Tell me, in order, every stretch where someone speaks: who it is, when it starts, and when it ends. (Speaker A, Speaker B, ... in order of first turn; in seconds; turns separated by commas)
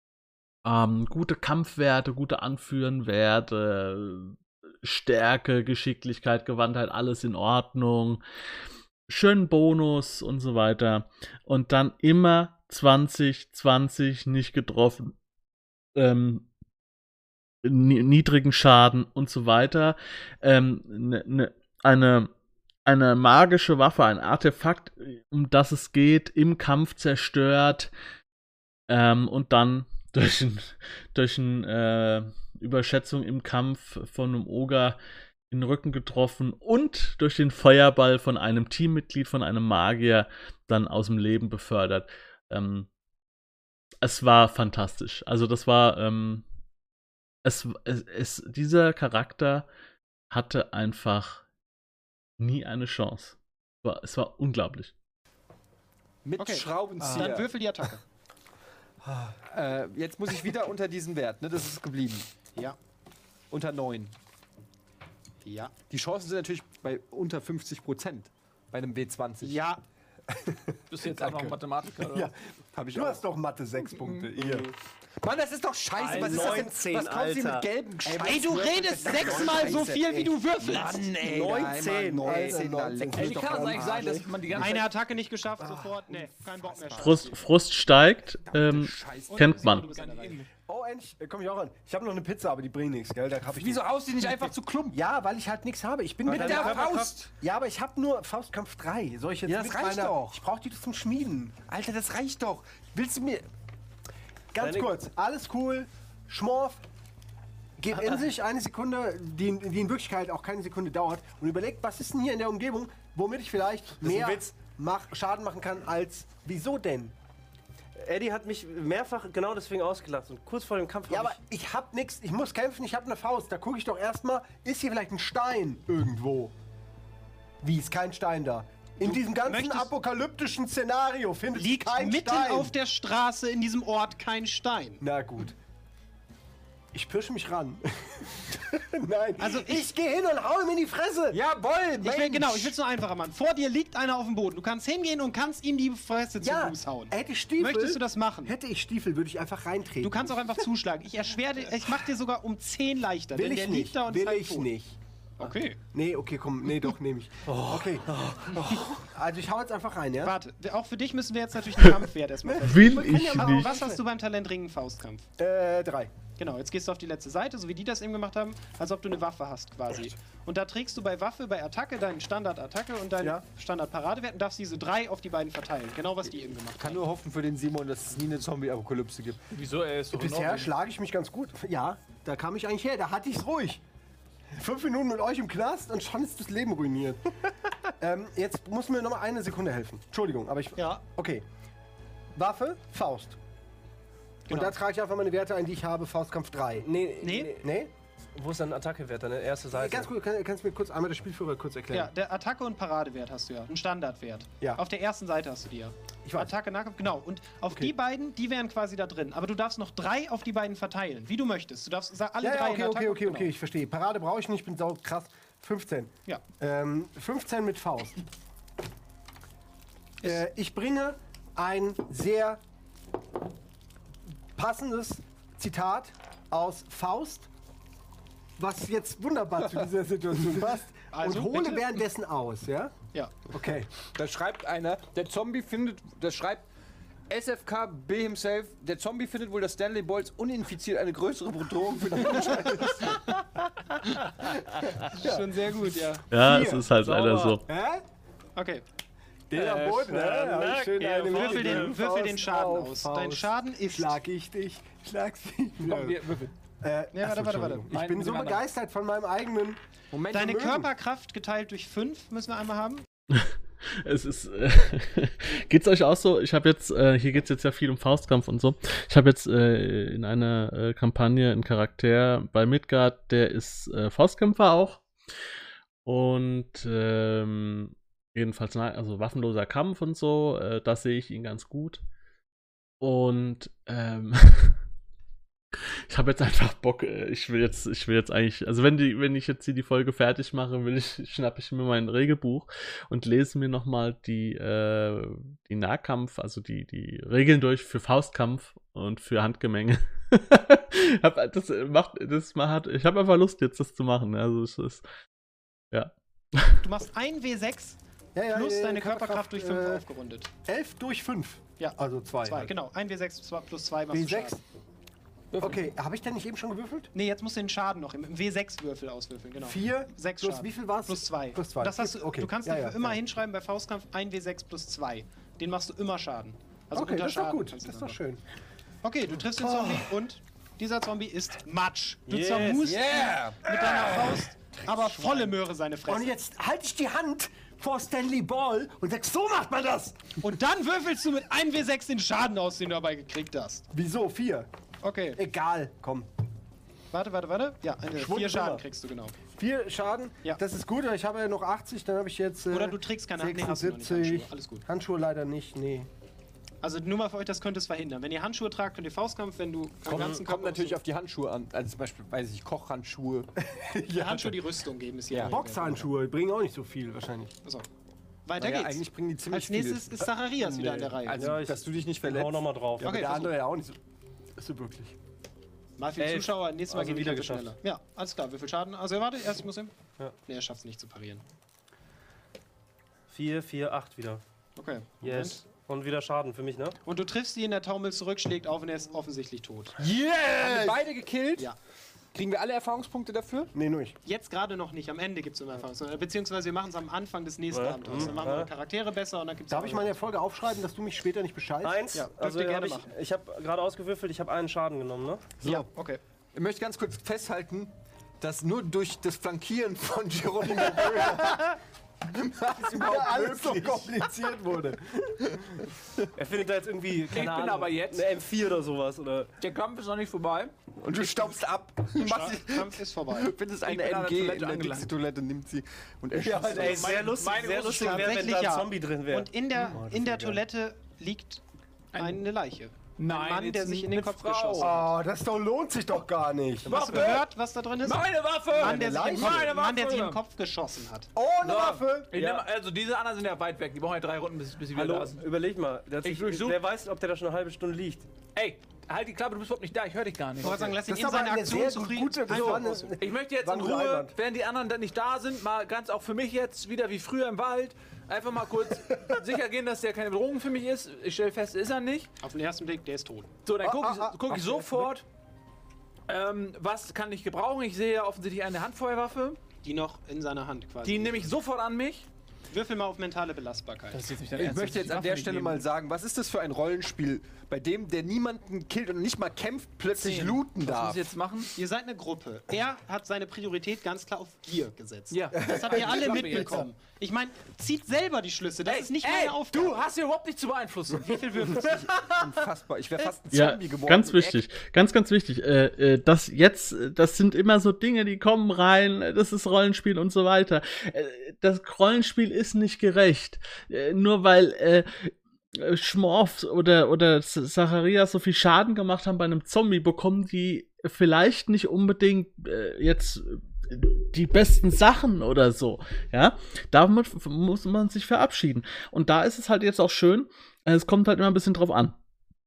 Speaker A: 0.6-8.2, Speaker A: 9.1-15.2, Speaker A: 15.9-16.5, Speaker A: 17.6-22.3, Speaker A: 22.9-27.9, Speaker A: 28.9-35.0, Speaker A: 35.5-42.9, Speaker A: 44.0-46.5, Speaker A: 47.4-49.7, Speaker A: 50.3-51.5, Speaker A: 52.4-54.9, Speaker B: 56.2-57.5, Speaker C: 56.4-58.0, Speaker D: 57.0-57.3, Speaker B: 59.1-62.3, Speaker B: 63.5-64.2, Speaker C: 65.4-65.7, Speaker B: 65.9-69.6, Speaker C: 69.4-69.8, Speaker D: 70.3-70.8, Speaker E: 70.9-72.3, Speaker B: 71.1-71.5, Speaker B: 72.7-73.2, Speaker D: 72.9-74.7, Speaker F: 74.4-74.7, Speaker B: 75.2-84.6, Speaker E: 76.0-76.7, Speaker F: 76.0-77.7, Speaker D: 78.0-79.9, Speaker C: 78.2-81.1, Speaker D: 81.2-84.4, Speaker F: 81.2-82.7, Speaker E: 83.1-84.9, Speaker C: 84.6-87.4, Speaker B: 86.1-87.2, Speaker A: 87.0-89.9, Speaker B: 88.5-89.9, Speaker C: 89.3-90.5, Speaker E: 89.9-90.5, Speaker D: 90.7-101.6, Speaker B: 93.5-95.0, Speaker F: 96.3-97.1, Speaker B: 96.3-97.3, Speaker B: 99.5-100.4, Speaker B: 101.7-103.4, Speaker D: 104.5-106.8, Speaker F: 104.6-104.9, Speaker D: 107.8-117.2, Speaker F: 114.0-114.4, Speaker F: 118.0-121.4, Speaker D: 121.1-126.5, Speaker D: 127.6-132.7, Speaker C: 129.0-129.9, Speaker C: 131.6-135.0, Speaker D: 135.0-135.6, Speaker D: 136.9-141.4, Speaker C: 139.4-139.9, Speaker B: 141.3-142.7, Speaker C: 142.0-148.6, Speaker D: 146.4-150.4, Speaker C: 150.0-154.7, Speaker D: 153.3-155.0, Speaker C: 155.4-155.8, Speaker D: 155.9-160.4, Speaker C: 160.2-165.3, Speaker D: 162.4-164.0, Speaker A: 162.6-163.7, Speaker D: 165.4-166.1, Speaker C: 166.4-177.0, Speaker B: 176.8-179.4, Speaker E: 179.5-180.7, Speaker D: 180.1-183.8, Speaker D: 184.5-187.2, Speaker D: 188.0-191.4, Speaker C: 190.8-191.0, Speaker D: 192.3-193.4, Speaker C: 194.5-194.8, Speaker D: 194.5-196.9, Speaker F: 196.8-197.7, Speaker C: 197.2-197.5, Speaker D: 197.6-197.9, Speaker F: 198.3-200.1, Speaker D: 199.7-202.1, Speaker C: 201.9-213.5, Speaker D: 206.2-206.5, Speaker D: 212.4-218.2, Speaker D: 220.2-222.6, Speaker D: 224.6-227.5, Speaker D: 228.6-233.0, Speaker C: 231.1-232.0, Speaker D: 233.5-233.9, Speaker B: 234.0-236.7, Speaker B: 237.3-243.3, Speaker D: 242.2-243.2, Speaker D: 244.4-245.6, Speaker C: 245.0-246.2, Speaker A: 246.3-247.7, Speaker D: 246.3-248.0, Speaker C: 248.6-248.8, Speaker D: 249.5-256.2, Speaker E: 249.6-250.2, Speaker F: 250.1-251.9, Speaker C: 251.1-254.2, Speaker E: 255.8-256.5, Speaker D: 256.8-259.8, Speaker C: 257.1-257.9, Speaker E: 257.9-258.6, Speaker B: 260.1-260.8, Speaker C: 260.3-263.0, Speaker A: 263.3-275.0, Speaker A: 276.0-282.0, Speaker A: 283.0-284.8, Speaker A: 286.1-305.1, Speaker A: 305.9-306.8, Speaker C: 306.8-308.0, Speaker D: 308.4-310.0, Speaker C: 308.5-310.5, Speaker D: 310.7-312.7, Speaker C: 311.8-314.6, Speaker D: 314.1-314.6, Speaker D: 315.6-317.1, Speaker C: 317.1-328.2, Speaker D: 319.6-323.2, Speaker D: 326.9-328.4, Speaker C: 329.0-336.3, Speaker D: 329.4-330.1, Speaker F: 332.3-333.0, Speaker B: 332.7-335.4, Speaker D: 336.1-340.4, Speaker C: 340.4-343.9, Speaker D: 343.9-344.7, Speaker C: 345.0-345.4, Speaker D: 345.4-346.3, Speaker C: 347.1-349.4, Speaker D: 348.1-348.8, Speaker D: 349.6-356.1, Speaker C: 352.7-354.9, Speaker C: 356.8-361.0, Speaker B: 360.1-363.5, Speaker F: 360.1-360.4, Speaker D: 363.6-364.6, Speaker C: 364.1-366.1, Speaker D: 365.4-367.5, Speaker C: 368.5-371.6, Speaker B: 368.6-370.2, Speaker B: 371.2-372.7, Speaker F: 371.3-373.5, Speaker D: 373.0-374.0, Speaker C: 373.0-373.5, Speaker D: 374.6-375.1, Speaker C: 376.0-379.9, Speaker F: 376.2-377.7, Speaker C: 380.5-381.4, Speaker F: 383.3-384.4, Speaker C: 384.8-385.6, Speaker F: 385.2-387.0, Speaker C: 387.1-390.0, Speaker B: 390.0-391.7, Speaker D: 390.6-390.9, Speaker B: 392.3-393.7, Speaker D: 393.7-394.2, Speaker C: 394.2-400.1, Speaker F: 397.7-398.7, Speaker D: 399.7-402.1, Speaker F: 401.8-405.6, Speaker C: 402.1-403.1, Speaker D: 405.6-405.9, Speaker C: 405.6-406.2, Speaker B: 406.5-411.7, Speaker D: 410.6-411.7, Speaker B: 412.2-414.2, Speaker D: 412.9-415.9, Speaker F: 416.4-419.5, Speaker E: 417.3-418.3, Speaker E: 419.6-420.8, Speaker B: 421.0-427.1, Speaker C: 422.2-423.6, Speaker E: 423.8-425.1, Speaker F: 426.3-430.0, Speaker E: 426.7-428.4, Speaker C: 427.9-431.6, Speaker D: 429.8-430.6, Speaker E: 432.1-432.4, Speaker C: 432.1-435.1, Speaker E: 433.2-435.0, Speaker D: 434.8-436.9, Speaker C: 436.9-441.3, Speaker E: 436.9-437.5, Speaker E: 438.0-440.4, Speaker D: 438.8-439.7, Speaker D: 441.4-442.4, Speaker E: 441.6-445.4, Speaker F: 442.3-442.6, Speaker F: 444.9-448.3, Speaker E: 446.2-446.8, Speaker E: 448.6-451.0, Speaker C: 450.6-453.2, Speaker D: 451.1-454.3, Speaker E: 452.6-462.3, Speaker C: 462.4-463.5, Speaker E: 463.6-465.2, Speaker D: 463.8-464.9, Speaker E: 466.3-469.6, Speaker C: 469.8-471.5, Speaker E: 471.0-472.3, Speaker C: 472.7-474.3, Speaker E: 474.1-475.9, Speaker B: 474.6-481.3, Speaker E: 480.1-481.7, Speaker C: 481.8-490.1, Speaker E: 485.3-486.9, Speaker D: 485.6-485.9, Speaker B: 485.7-486.7, Speaker E: 488.9-491.8, Speaker C: 491.2-492.3, Speaker B: 491.7-494.6, Speaker A: 493.5-522.2